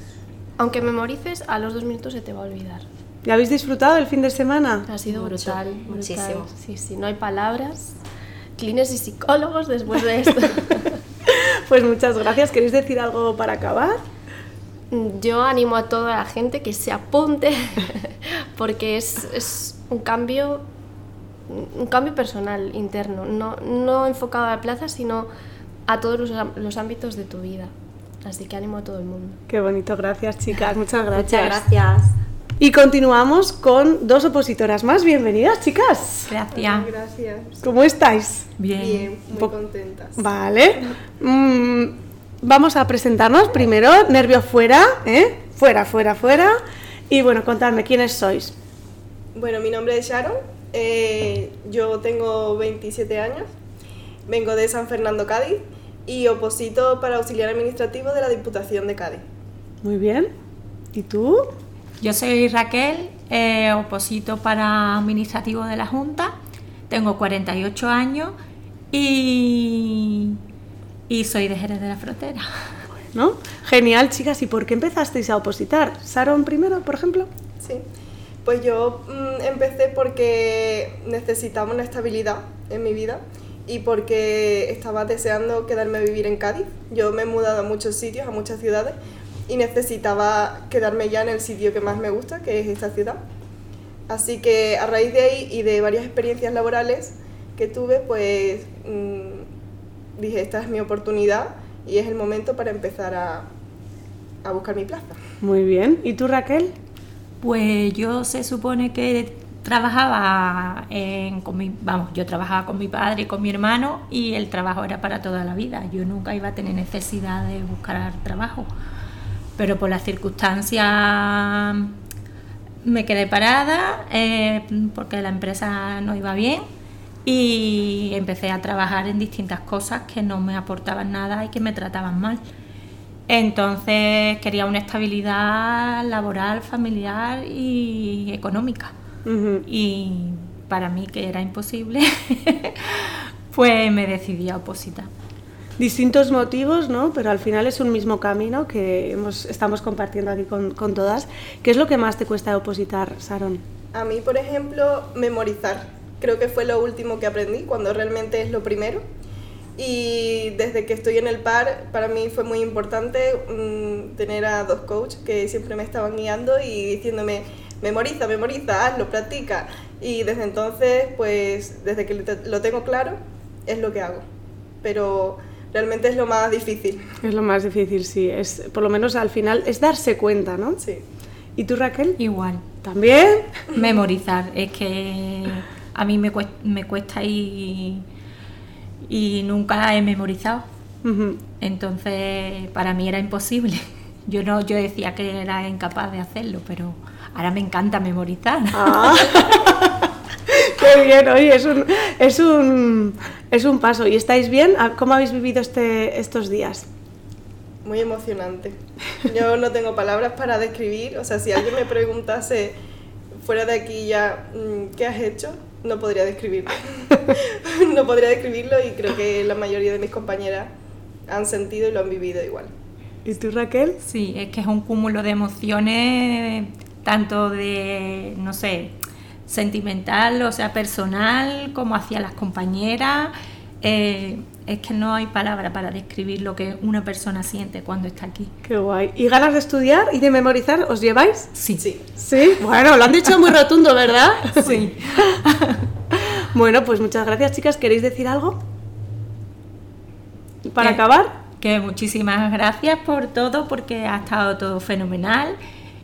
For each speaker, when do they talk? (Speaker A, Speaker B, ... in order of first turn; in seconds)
Speaker A: 0.6-2.8, 4.9-8.0, 8.6-10.9, 14.9-20.6, 21.5-25.3, 25.9-29.4
Speaker B: 3.2-4.9, 11.2-14.0, 29.5-31.6, 32.6-36.3, 37.6-38.5, 40.1-48.5, 59.8-60.3, 60.9-61.5, 73.1-77.3, 105.4-106.7, 139.2-139.6, 145.8-153.6, 177.2-180.8, 181.6-182.2, 182.8-183.5, 191.0-191.4, 198.7-206.9, 223.2-224.0, 238.6-241.5, 242.2-244.7, 246.1-248.6, 250.6-251.3
Speaker C: 5.0-6.5, 31.1-32.1
Speaker D: 36.3-36.9, 38.6-39.2, 62.0-66.3, 66.9-68.3, 68.9-70.4, 71.1-72.5, 107.4-118.7, 119.6-121.9, 122.8-126.7, 127.2-132.4, 133.3-138.9, 139.6-145.1, 182.2-182.6, 183.7-188.1, 189.1-190.7, 191.6-199.6, 224.0-228.9, 229.5-238.5, 241.6-241.9, 244.5-245.7, 251.6-255.6
Speaker E: 36.5-37.6, 38.8-40.2, 49.3-53.5, 54.3-59.2, 78.4-89.0, 89.5-93.2, 94.1-99.5, 100.2-103.5, 104.4-105.2, 153.9-159.0, 159.8-174.2, 174.8-177.1, 207.8-212.8, 213.4-220.7, 221.3-222.7